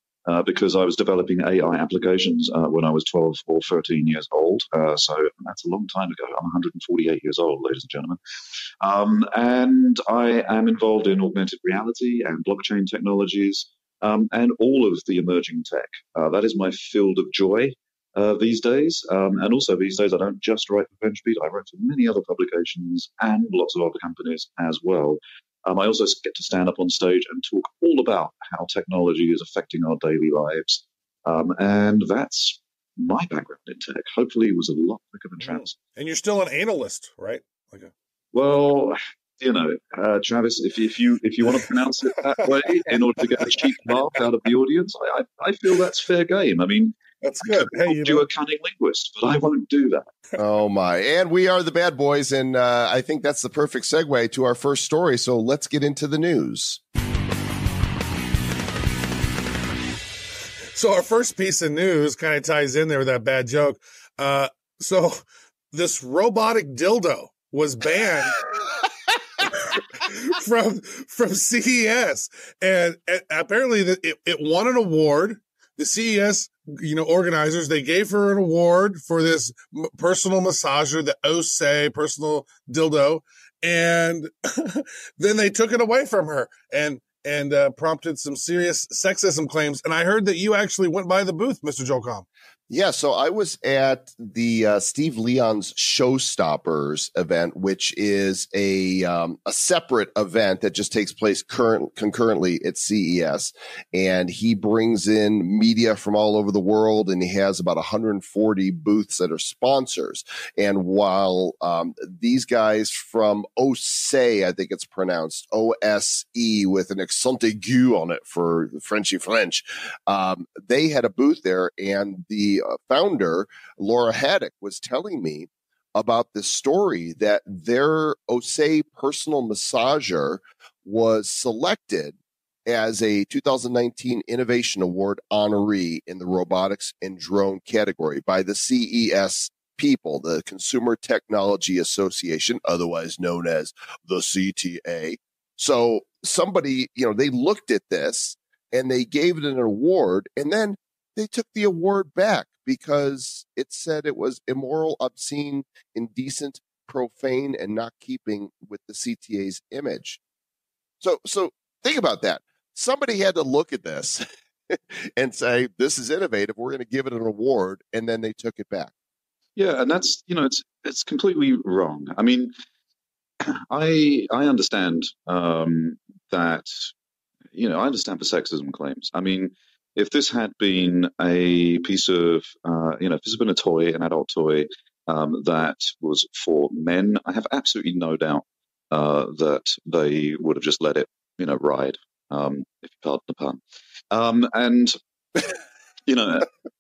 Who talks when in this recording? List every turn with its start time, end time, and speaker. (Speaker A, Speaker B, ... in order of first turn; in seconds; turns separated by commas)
Speaker A: 0.3-8.2, Speaker A: 8.8-35.8, Speaker B: 35.4-37.9, Speaker A: 38.3-50.1, Speaker B: 47.2-48.2, Speaker C: 50.4-56.8, Speaker B: 60.7-68.5, Speaker B: 69.4-92.3, Speaker C: 92.7-160.2, Speaker C: 161.0-168.9, Speaker A: 169.6-172.5, Speaker A: 173.4-176.9, Speaker A: 177.5-195.0, Speaker A: 196.1-196.5